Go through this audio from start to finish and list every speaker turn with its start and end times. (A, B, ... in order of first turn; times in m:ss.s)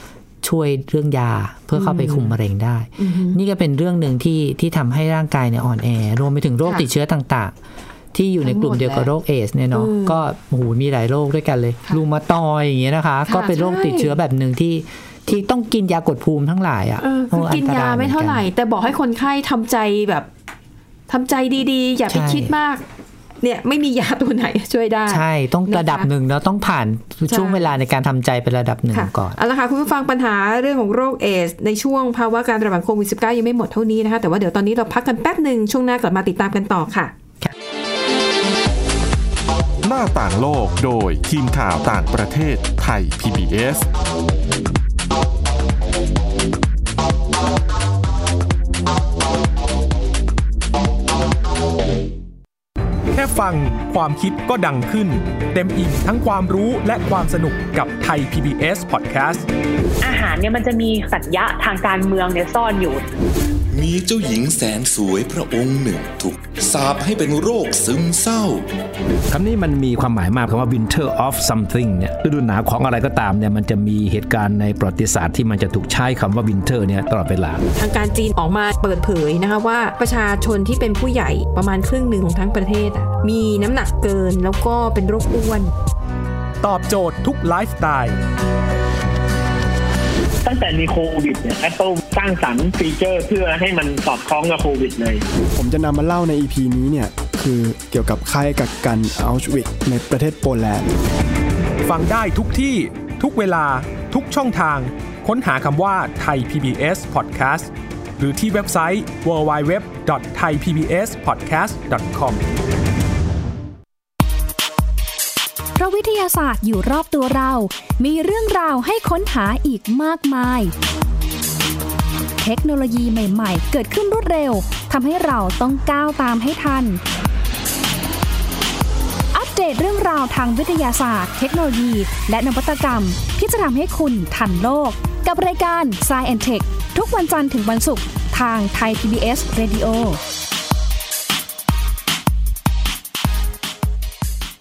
0:00.4-0:07.6 A
0:01.8-0:02.4 B
0:03.0-0:03.4 B
0:08.1-0:18.4 A
0:08.4-0:09.1 B
0:09.7-0:10.2 B
0:13.3-0:14.2 B
0:17.0-0:20.3 B
0:21.1-0:22.8 B
0:22.1-0:22.5 A
0:23.4-0:26.1 B
0:25.1-0:29.4 A
0:27.3-0:27.6 B
0:28.9-0:37.1 B
0:39.8-0:43.9 C
0:53.1-0:59.5 D
1:00.0-1:03.1 E
1:03.7-1:08.7 F
1:09.3-1:17.6 G
1:17.8-1:25.7 B
1:26.6-1:28.2 D
1:30.4-1:35.2 H
1:35.6-1:40.9 I
1:41.8-1:52.4 D
1:55.8-2:00.7 J
2:02.4-2:07.0 J
2:09.3-2:20.2 J